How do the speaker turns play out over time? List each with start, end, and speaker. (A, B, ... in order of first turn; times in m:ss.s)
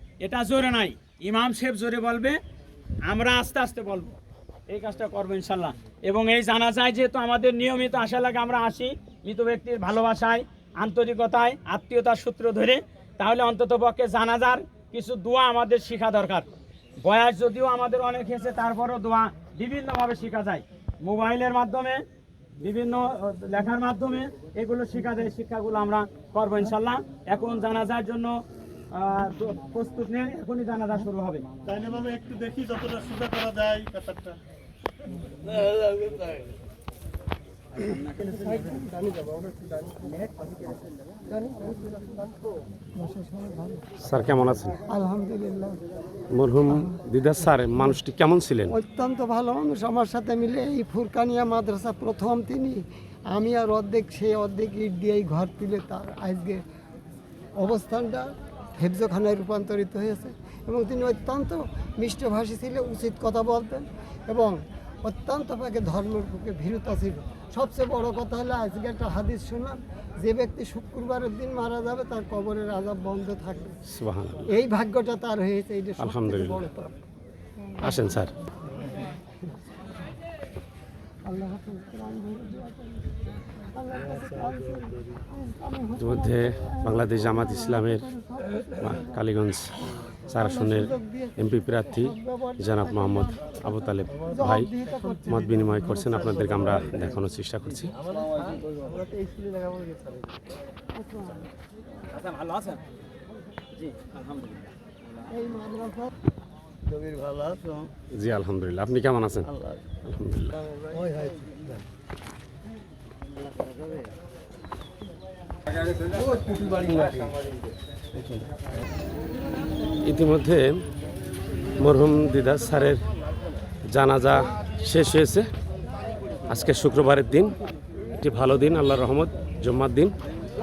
0:00.2-0:02.4 A
0:03.0-0:04.1 A
0:04.7-0:16.5 A
0:17.0-0:22.0 A
0:22.6-0:28.4 A
0:28.9-0:31.5 A
0:31.6-0:34.4 B
0:35.7-0:36.2 B
0:37.8-0:38.7 A
0:43.0-0:43.9 C
0:44.0-0:44.8 D
0:44.8-0:45.8 C
0:46.3-0:48.7 D
0:46.7-0:47.0 C
0:48.7-0:56.6 C
0:57.6-1:13.8 C
1:13.9-1:14.5 D
1:14.4-1:16.9 C
1:16.0-1:16.7 D
1:17.8-1:18.2 C
1:17.8-1:18.3 D
1:18.7-1:19.1 C
1:21.2-1:23.2 C
1:23.7-1:29.2 C
1:26.0-1:28.1 D
1:28.8-1:34.7 D
1:30.4-1:36.0 C
1:35.0-1:35.6 B
1:35.3-1:37.9 D
1:38.5-1:40.1 B
1:41.0-1:41.5 C
1:42.1-1:42.8 A
1:43.7-1:44.6 A
1:45.2-1:46.1 C
1:46.9-1:47.3 C
1:47.0-1:47.8 B
1:48.1-1:50.6 D
1:50.9-1:51.4 B
1:56.1-1:57.3 B
2:00.0-2:00.8 D
2:01.8-2:03.0 D
2:03.9-2:05.5 D
2:06.5-2:07.5 D
2:08.2-2:10.1 D